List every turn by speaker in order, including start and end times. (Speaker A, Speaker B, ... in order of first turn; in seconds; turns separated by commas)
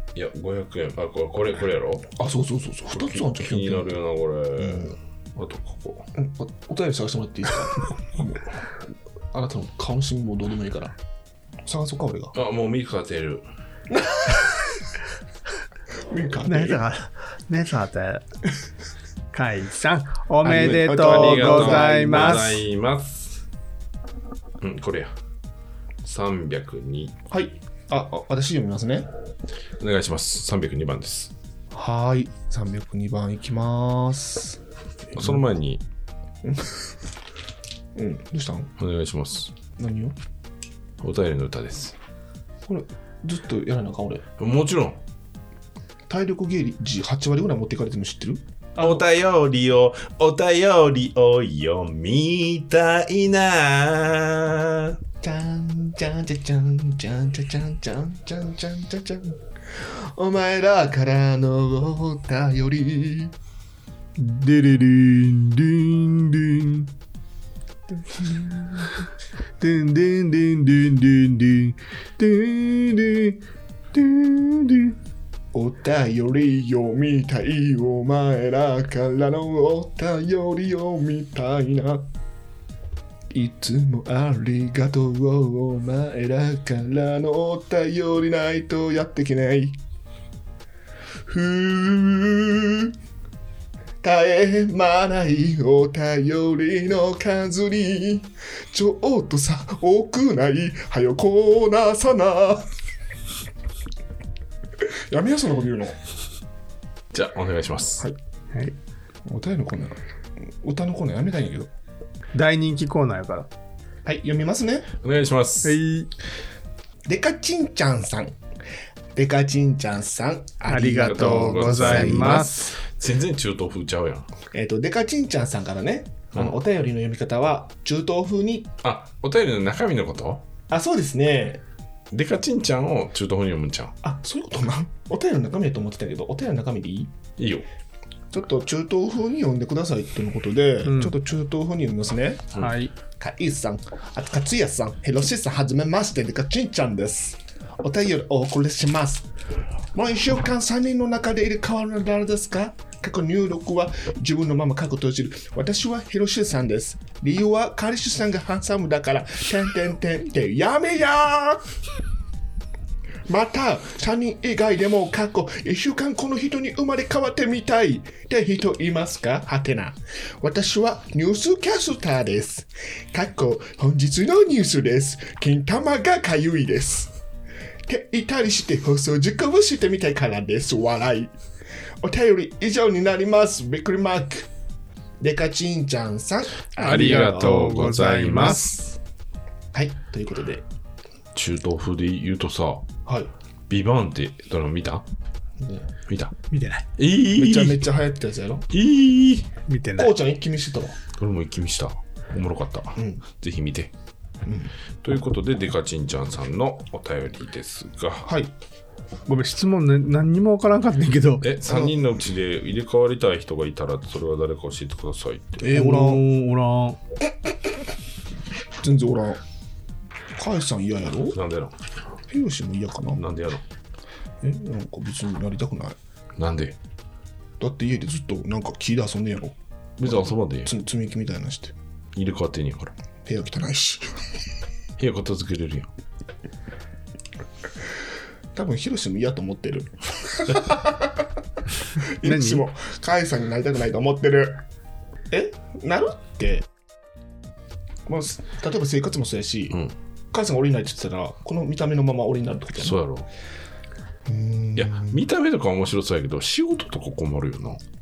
Speaker A: 0.1-2.1, Speaker B: 2.2-4.0, Speaker A: 2.9-6.1, Speaker B: 4.6-5.0, Speaker B: 6.2-11.0, Speaker B: 11.6-12.3, Speaker A: 12.3-13.4, Speaker B: 13.9-14.8, Speaker B: 16.1-16.8, Speaker C: 16.5-18.2, Speaker C: 19.3-22.6, Speaker B: 20.4-22.5, Speaker A: 20.5-23.4, Speaker A: 24.6-25.1, Speaker A: 26.0-27.1, Speaker B: 27.3-29.1, Speaker A: 29.8-31.3, Speaker B: 31.7-35.5, Speaker A: 35.1-35.8, Speaker B: 36.4-36.8, Speaker B: 38.0-38.7, Speaker A: 38.8-39.5, Speaker B: 39.8-40.2, Speaker A: 41.0-42.0, Speaker B: 42.7-44.2, Speaker A: 44.4-45.0, Speaker B: 46.1-49.0, Speaker A: 48.8-55.0, Speaker B: 55.2-63.3, Speaker C: 64.2-66.9, Speaker B: 67.9-68.9, Speaker C: 69.6-73.4, Speaker C: 73.9-75.0, Speaker B: 75.5-82.1, Speaker B: 83.3-89.8, Speaker B: 91.3-92.9, Speaker B: 94.0-102.7, Speaker B: 104.8-106.0, Speaker A: 107.1-108.1, Speaker B: 109.2-111.7, Speaker C: 112.3-113.5, Speaker B: 114.0-114.9, Speaker A: 115.0-115.8, Speaker C: 115.6-116.1, Speaker B: 117.1-118.4, Speaker B: 119.1-122.7, Speaker C: 120.7-122.8, Speaker A: 121.0-124.3, Speaker B: 124.5-128.7, Speaker A: 128.8-130.4, Speaker B: 130.7-131.6, Speaker A: 132.1-134.0, Speaker B: 134.0-137.1, Speaker A: 137.4-137.7, Speaker B: 138.3-142.6, Speaker C: 140.8-141.2, Speaker C: 142.6-142.9, Speaker B: 143.2-149.3, Speaker B: 149.9-161.7, Speaker B: 163.3-177.1, Speaker B: 177.9-181.3, Speaker B: 182.0-184.5, Speaker B: 185.2-187.7, Speaker A: 186.8-188.7, Speaker C: 186.8-188.8, Speaker B: 188.3-188.8, Speaker B: 189.7-190.6, Speaker A: 191.3-192.9, Speaker B: 193.1-193.3, Speaker A: 193.7-195.1, Speaker B: 195.6-195.9, Speaker A: 196.1-196.3, Speaker C: 196.5-196.8, Speaker A: 197.0-197.9, Speaker B: 197.3-198.7, Speaker A: 198.7-199.5, Speaker C: 199.7-200.1, Speaker B: 200.0-201.0, Speaker A: 201.2-203.9, Speaker B: 203.0-203.2, Speaker B: 204.4-204.7, Speaker A: 205.0-208.3, Speaker B: 208.2-208.5, Speaker C: 209.3-211.5, Speaker A: 211.4-215.7, Speaker B: 211.7-212.0, Speaker B: 215.6-216.2, Speaker C: 215.7-217.0, Speaker B: 218.8-219.4, Speaker B: 220.4-221.4, Speaker A: 221.3-221.8, Speaker B: 222.3-223.2, Speaker A: 223.2-223.6, Speaker B: 224.4-226.0, Speaker A: 226.4-226.8, Speaker B: 227.6-231.8, Speaker A: 230.0-230.7, Speaker A: 232.2-232.9, Speaker B: 233.2-234.2, Speaker A: 235.0-235.9, Speaker B: 238.5-241.3, Speaker B: 242.0-244.6, Speaker C: 242.2-242.7, Speaker B: 245.3-246.7, Speaker B: 248.1-249.8, Speaker B: 250.3-253.0, Speaker A: 252.8-253.3, Speaker B: 254.3-255.2, Speaker A: 254.8-257.8